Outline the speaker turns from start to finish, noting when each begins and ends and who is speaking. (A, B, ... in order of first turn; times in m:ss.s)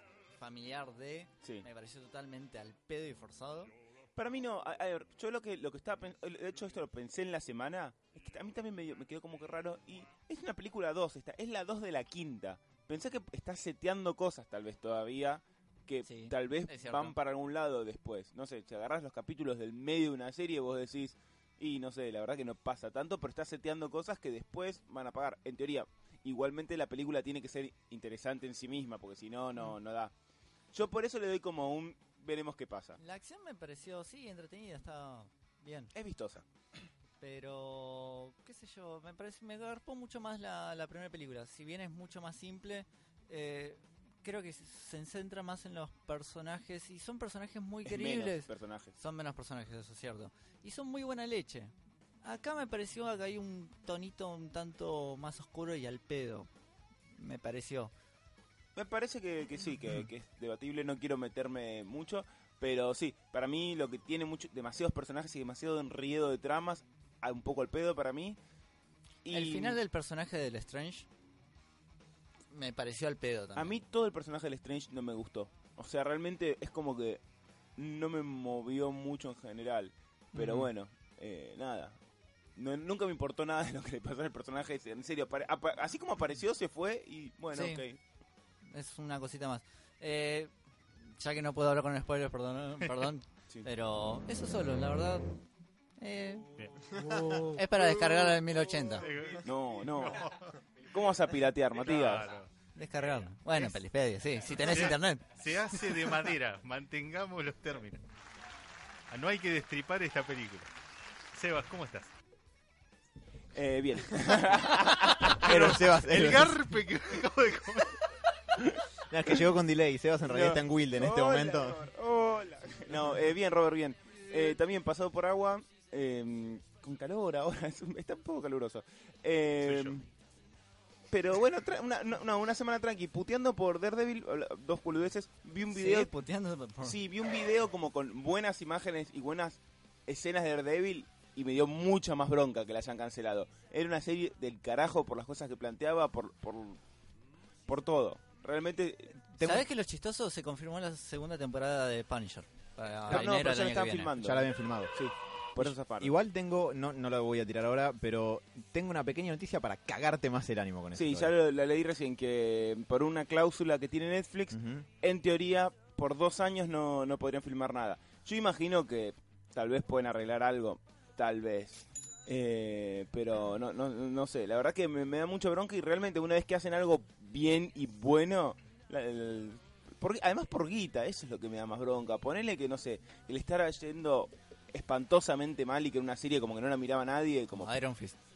0:00.4-0:03.7 A
0:04.2-0:30.1 B
0:16.0-0:17.1 A
0:30.7-0:33.0 B
0:33.0-0:35.9 A
0:35.9-0:36.4 B
0:37.2-0:51.7 A
0:47.8-0:48.9 B
0:52.2-0:56.5 A
0:57.2-0:57.9 A
0:58.8-1:08.4 B
1:09.2-1:09.8 B
1:09.3-1:11.1 A
1:12.5-1:13.8 A
1:13.6-1:17.2 B
1:17.8-1:22.0 B
1:22.6-1:28.0 B
1:27.5-1:27.8 A
1:28.7-1:30.5 A
1:31.2-1:35.2 A
1:36.0-1:36.5 A
1:36.6-1:36.9 C
1:37.4-1:39.1 A
1:39.0-1:40.5 C
1:39.4-1:40.3 B
1:40.9-1:42.3 B
1:41.8-1:42.5 C
1:42.8-1:45.2 A
1:44.6-1:48.0 C
1:49.1-1:50.7 C
1:51.3-1:52.1 C
1:53.5-1:55.4 B
1:55.4-1:58.0 C
1:55.4-1:56.7 D
1:59.1-2:01.9 D
2:00.3-2:10.1 B
2:09.6-2:10.0 C
2:11.1-2:16.1 B
2:15.7-2:17.0 A
2:16.8-2:26.8 B
2:27.7-2:29.2 B
2:29.4-2:29.6 D
2:29.4-2:34.1 A
2:33.1-2:36.1 B
2:34.2-2:34.9 D
2:35.6-2:41.3 D
2:41.0-3:07.8 B
2:44.5-2:44.8 D
3:07.6-3:08.2 A